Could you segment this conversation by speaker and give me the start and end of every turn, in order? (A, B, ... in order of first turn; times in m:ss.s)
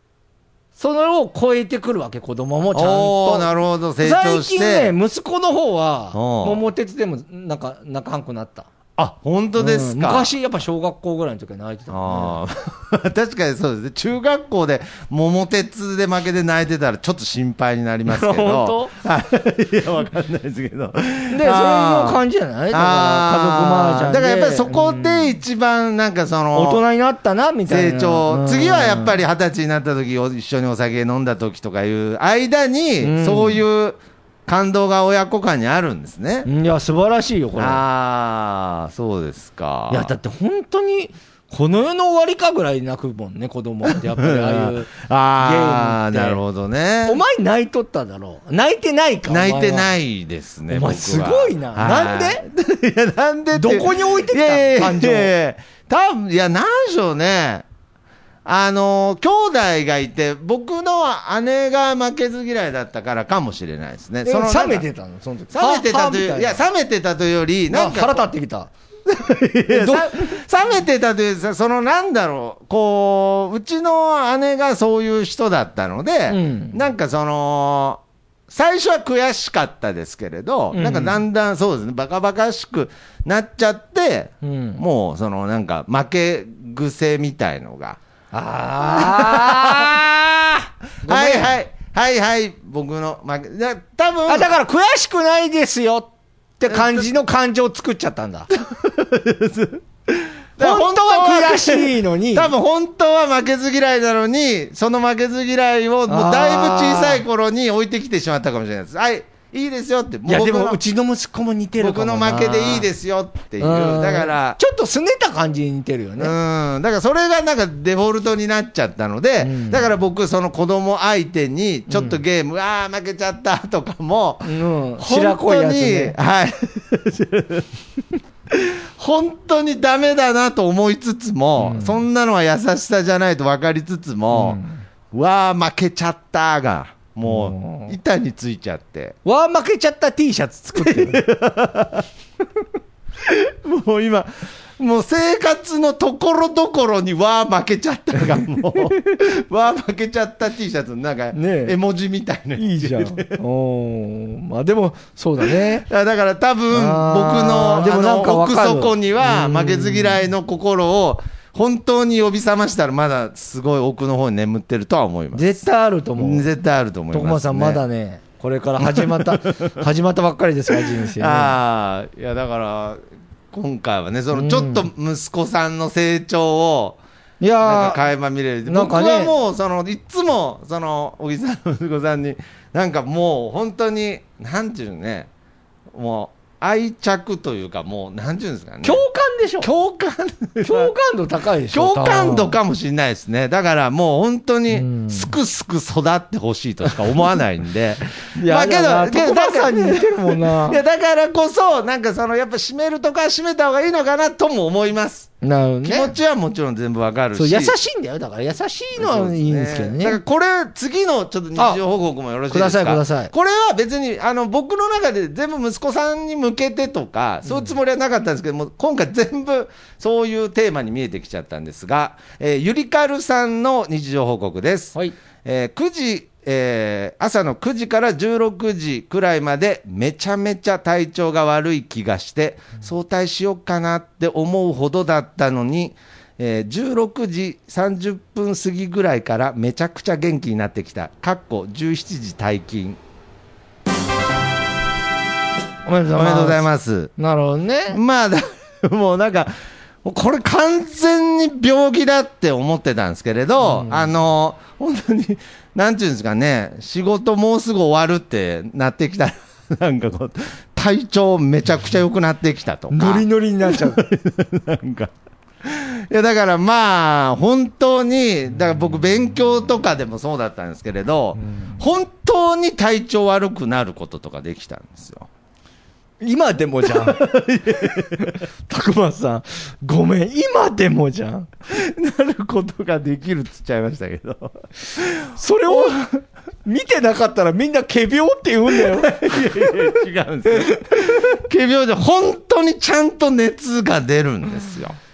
0:00.8-0:03.5 A
0:02.7-0:04.9 B
0:04.0-0:08.7 A
0:06.1-0:06.6 B
0:09.0-0:10.3 B
0:09.6-0:12.4 A
0:11.9-0:26.8 B
0:18.1-0:18.9 A
0:21.3-0:25.3 A
0:26.5-0:29.2 A
0:27.7-0:36.5 B
0:33.0-0:33.6 A
0:36.4-0:37.8 A
0:37.6-0:40.1 B
0:39.9-0:46.4 A
0:43.9-0:47.2 B
0:47.0-0:49.9 A
0:49.3-0:57.6 B
0:50.7-0:52.4 A
0:53.5-0:55.3 A
0:58.4-1:04.8 B
1:04.2-1:06.6 A
1:05.5-1:08.3 B
1:07.7-1:08.7 A
1:09.1-1:28.0 B
1:09.7-1:10.3 A
1:16.3-1:16.8 A
1:20.7-1:21.2 A
1:24.4-1:24.8 A
1:28.3-1:30.2 A
1:28.9-1:30.1 B
1:31.0-1:31.6 A
1:31.0-1:34.5 B
1:34.3-1:38.5 A
1:36.7-1:37.1 B
1:38.5-1:50.8 B
1:40.6-1:42.5 A
1:46.1-1:47.2 A
1:50.3-1:52.9 A
1:51.8-1:54.6 B
1:53.6-1:56.3 A
1:56.2-2:07.7 B
1:59.4-1:59.9 A
2:01.9-2:02.2 A
2:04.4-2:06.1 A
2:08.5-2:14.6 B
2:11.6-2:12.0 A
2:14.3-2:14.8 A
2:15.1-2:19.2 B
2:17.2-2:17.9 A
2:19.2-2:21.2 A
2:20.7-2:22.1 B
2:23.2-2:33.4 B
2:31.3-2:31.8 A
2:32.6-2:35.8 A
2:35.4-2:45.6 B
2:36.7-2:40.2 A
2:45.3-2:46.5 A
2:46.2-2:47.8 B
2:47.1-2:51.6 A
2:48.8-2:49.8 B
2:50.7-2:57.0 B
2:54.3-2:54.9 A
2:57.4-2:58.0 A
2:57.6-3:05.3 B
2:58.6-2:59.3 A
3:05.9-3:09.0 B
3:08.8-3:09.7 A
3:09.6-3:10.9 B
3:10.6-3:12.6 A
3:11.7-3:25.3 B
3:14.7-3:15.3 A
3:18.3-3:20.8 A
3:25.4-3:26.2 A
3:25.8-3:27.7 B
3:27.3-3:30.2 A
3:29.0-4:03.0 B
3:31.6-3:31.8 A
3:32.5-3:33.3 A
3:37.4-3:37.7 A
4:05.8-4:06.6 A
4:06.1-4:07.1 B
4:07.2-4:08.0 A
4:07.9-4:09.5 B
4:10.0-4:25.1 B
4:13.6-4:14.1 A
4:22.9-4:24.0 A
4:25.6-4:35.3 B
4:31.4-4:31.8 A
4:36.2-4:41.5 A
4:36.8-4:38.4 B
4:41.7-4:46.0 B
4:45.3-4:49.9 A
4:48.7-4:55.0 B
4:50.5-4:51.3 A